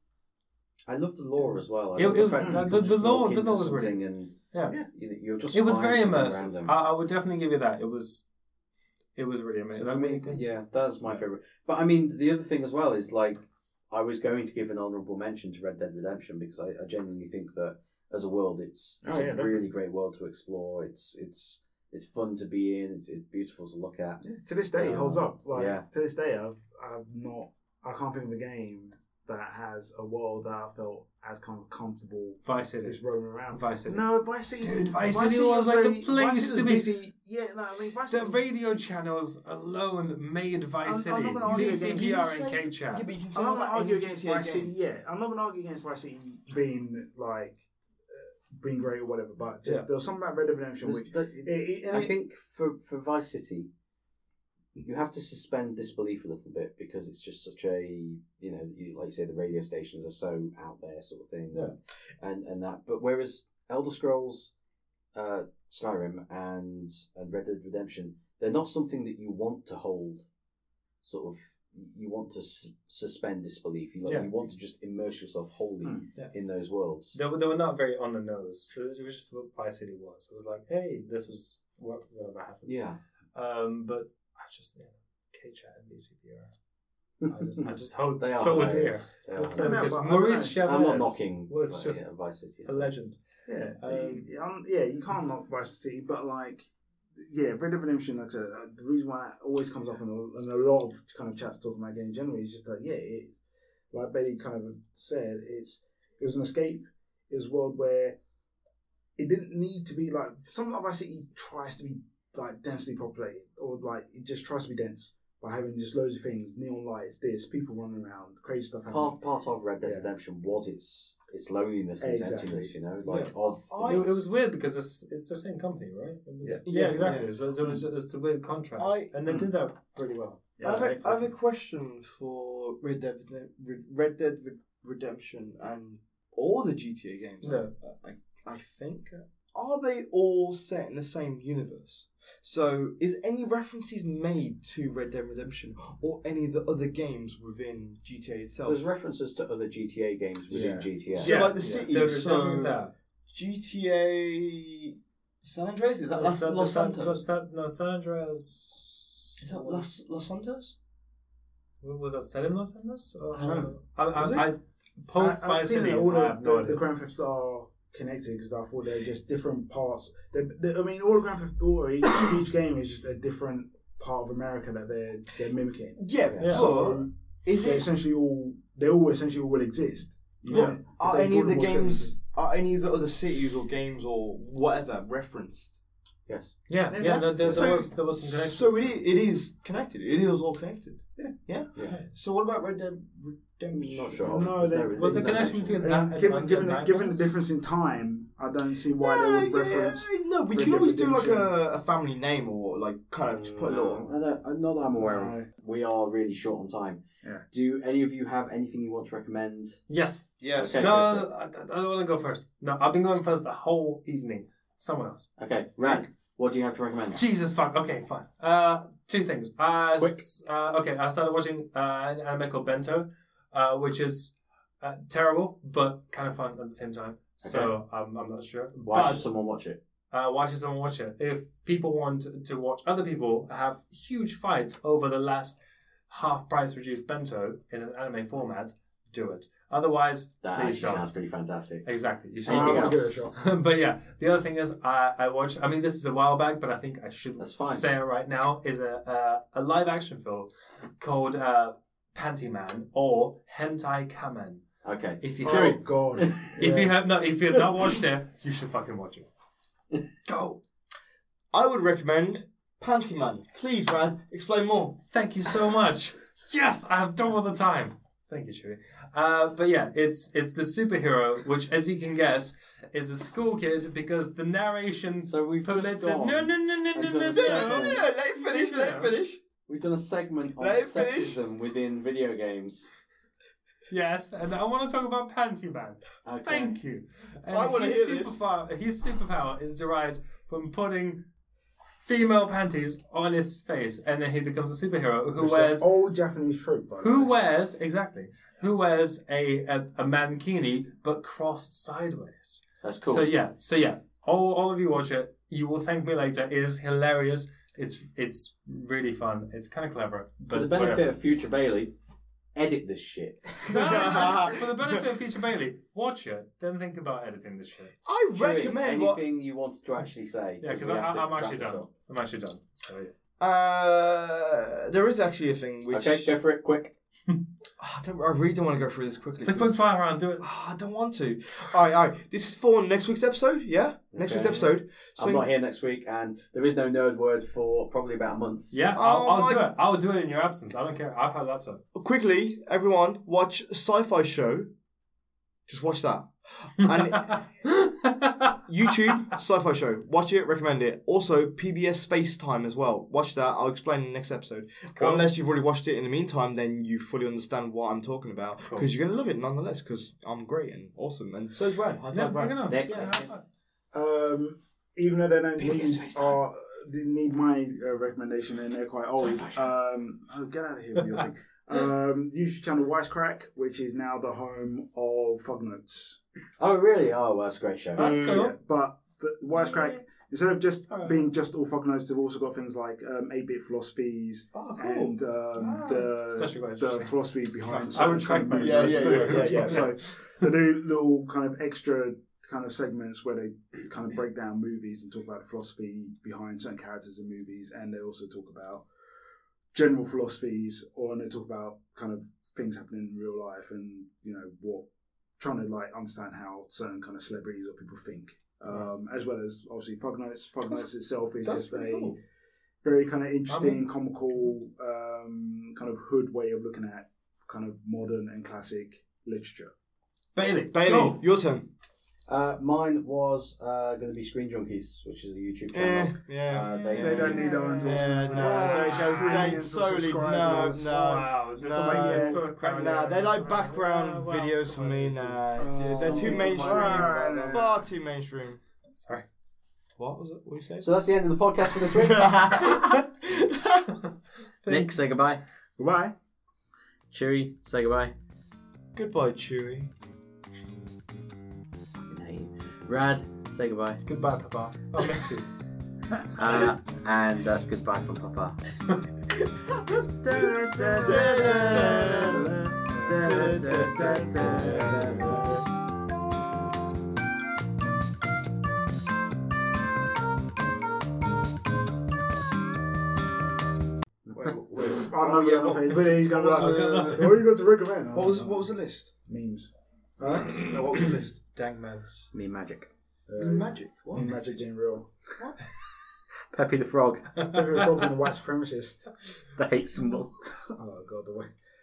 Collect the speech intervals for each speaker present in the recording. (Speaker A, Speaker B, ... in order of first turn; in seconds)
Speaker A: 0.9-6.8, 9.8-24.2, 24.8-25.8, 50.8-53.7, 54.8-64.5, 65.1-70.2, 71.0-77.2, 82.7-83.0, 87.2-87.6, 88.2-90.0, 90.6-92.9, 118.9-124.1, 148.7-151.4, 186.3-186.6, 193.7-195.8, 203.3-209.8, 210.6-211.3, 215.4-217.2, 227.4-227.7, 228.8-229.8, 240.4-241.9, 242.4-243.3, 247.4-247.9, 254.8-256.5, 275.2-278.1, 279.7-282.9, 286.2-286.8, 302.8-303.3, 310.5-311.9, 312.6-314.0, 318.4-321.9, 325.9-326.9, 334.1-338.8, 362.7-363.3, 376.6-378.3, 422.3-427.6, 428.3-429.5, 435.7-437.7, 440.8-442.4, 444.7-445.4, 447.1-448.1, 452.0-454.0, 456.4-458.6, 460.2-465.5, 482.3-482.9, 486.5-487.4, 489.6-490.4
Speaker B: 1.4-4.0, 4.5-4.8, 5.5-8.2, 9.2-10.5, 32.4-33.0, 33.5-34.0, 34.6-36.9, 38.1-43.1, 77.1-82.8, 83.3-86.5, 87.3-92.0, 92.7-93.2, 93.8-94.3, 123.1-131.2, 137.4-137.7, 151.2-152.9, 156.1-159.9, 161.8-166.8, 176.4-176.7, 180.5-180.8, 186.7-189.0, 194.9-197.3, 209.9-215.3, 217.1-229.3, 230.1-241.1, 241.8-254.7, 255.2-255.8, 256.4-259.3, 265.1-279.1, 283.9-291.2, 292.0-295.9, 297.0-311.1, 313.7-317.9, 320.6-323.1, 329.4-330.5, 338.7-341.8, 346.8-348.5, 355.0-355.3, 358.6-358.9, 362.1-363.4, 378.0-378.6, 379.6-380.0, 380.9-381.3, 385.6-387.1, 387.9-389.9, 413.5-413.8, 420.4-421.2, 426.6-429.4, 430.8-435.5, 438.9-439.2, 444.6-445.0, 454.1-455.5, 460.3-463.2, 464.3-465.1, 476.5-477.3, 480.9-482.3, 487.4-487.9
Speaker C: 2.4-2.7, 19.0-19.6, 24.2-38.4, 40.8-42.2, 43.3-52.1, 75.8-76.1, 89.5-90.6, 93.5-103.4, 103.9-108.2, 109.2-119.2, 119.8-120.1, 122.0-122.7, 129.3-129.5, 130.6-131.2, 150.5-151.8, 165.2-182.1, 186.9-187.3, 194.2-201.5, 205.0-205.5, 242.5-243.3, 255.4-256.9, 295.4-297.3, 363.9-376.2, 378.0-398.9, 399.7-404.9, 405.4-412.2, 412.8-419.7, 427.0-431.1, 431.7-432.5, 435.6-437.7, 445.8-446.1, 474.3-478.6, 479.3-480.9, 483.3-485.5, 487.4-489.2, 490.8-491.5
Speaker D: 41.5-44.7, 123.7-124.2, 126.7-127.3, 128.8-129.1, 130.6-148.8, 151.1-152.8, 153.3-157.2, 159.4-160.8, 163.3-164.5, 176.0-177.9, 180.5-185.8, 187.0-194.3, 199.0-204.1, 210.4-210.9, 215.8-216.1, 260.3-260.6, 261.5-265.0, 277.3-279.4, 280.6-281.4, 287.5-288.4, 313.6-315.1, 318.1-319.2, 323.4-326.4, 327.8-329.8, 330.4-335.5, 338.9-339.7, 341.9-344.7, 345.7-347.4, 348.7-363.1, 365.6-366.4, 384.5-385.1, 387.6-390.0, 411.4-412.2, 420.7-421.7, 425.7-438.6, 440.0-440.9, 441.7-443.9, 448.9-449.9, 460.9-462.5, 463.2-465.4, 474.3-477.4, 478.1-479.1, 480.4-481.4, 483.4-484.4